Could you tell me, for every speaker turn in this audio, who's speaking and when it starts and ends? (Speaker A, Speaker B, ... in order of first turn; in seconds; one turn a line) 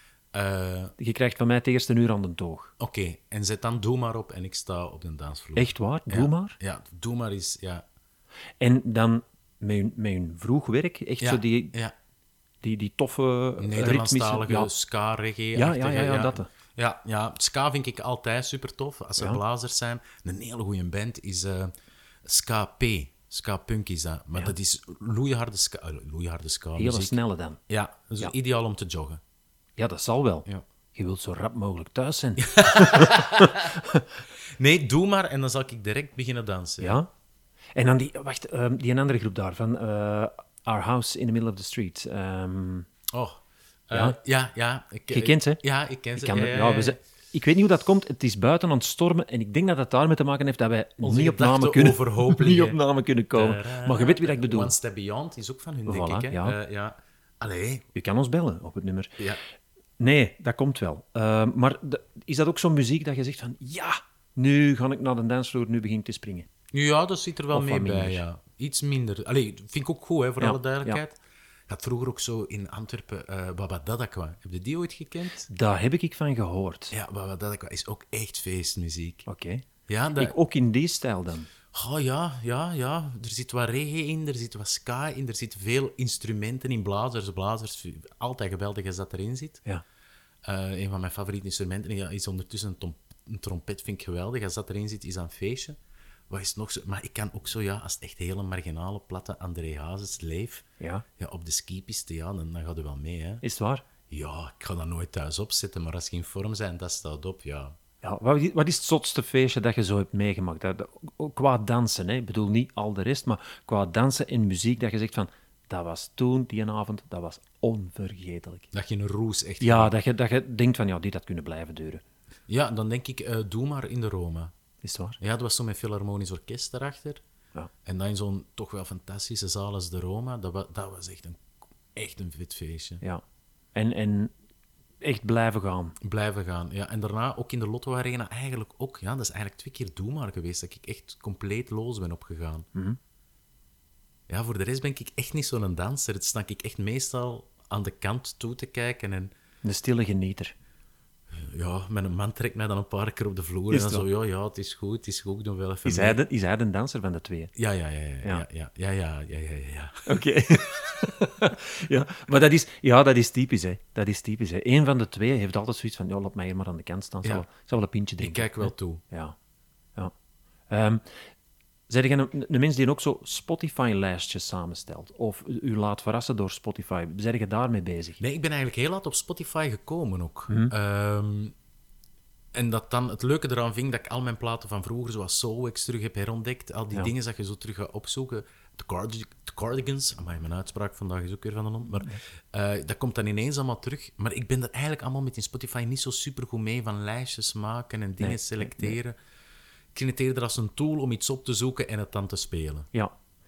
Speaker A: 0.3-0.9
Speaker B: 1.0-2.8
Speaker A: 2.8-7.8
Speaker B: 5.6-6.6
Speaker B: 8.6-11.8
Speaker A: 11.2-11.9
Speaker B: 12.6-14.7
Speaker A: 13.6-21.7
Speaker B: 15.6-16.5
Speaker A: 22.2-27.2
Speaker B: 26.8-27.6
Speaker A: 27.7-29.2
Speaker B: 29.8-34.1
Speaker A: 32.4-33.8
Speaker A: 34.5-37.0
Speaker B: 36.8-37.1
Speaker B: 37.8-42.9
Speaker A: 43.1-47.0
Speaker B: 45.1-45.6
Speaker B: 46.1-54.7
Speaker A: 51.0-52.8
Speaker A: 53.3-57.9
Speaker B: 55.9-56.6
Speaker B: 58.0-59.2
Speaker B: 60.0-66.5
Speaker A: 66.7-75.5
Speaker B: 67.5-68.2
Speaker B: 70.4-71.0
Speaker B: 75.5-76.9
Speaker A: 76.9-79.2
Speaker B: 79.3-79.7
Speaker A: 79.9-80.3
Speaker B: 80.2-81.5
Speaker A: 81.7-89.6
Speaker A: 90.5-95.8
Speaker A: 96.3-100.6
Speaker B: 100.8-101.0
Speaker A: 101.2-103.4
Speaker B: 103.4-103.8
Speaker A: 104.1-107.8
Speaker B: 108.0-118.7
Speaker A: 118.7-119.9
Speaker B: 119.6-122.0
Speaker A: 122.5-124.5
Speaker B: 124.8-125.2
Speaker A: 125.2-127.2
Speaker A: 127.8-131.4
Speaker A: 131.9-133.0
Speaker B: 133.8-134.3
Speaker B: 135.0-136.0
Speaker A: 136.0-142.7
Speaker B: 142.7-143.0
Speaker A: 144.3-149.3
Speaker B: 149.6-150.5
Speaker A: 151.3-156.2
Speaker B: 153.7-154.1
Speaker B: 155.8-157.5
Speaker A: 157.6-160.2
Speaker B: 160.1-169.4
Speaker A: 168.2-169.0
Speaker B: 170.7-171.2
Speaker B: 171.9-178.2
Speaker A: 178.2-181.6
Speaker A: 182.5-199.2
Speaker B: 198.2-199.0
Speaker A: 199.9-202.9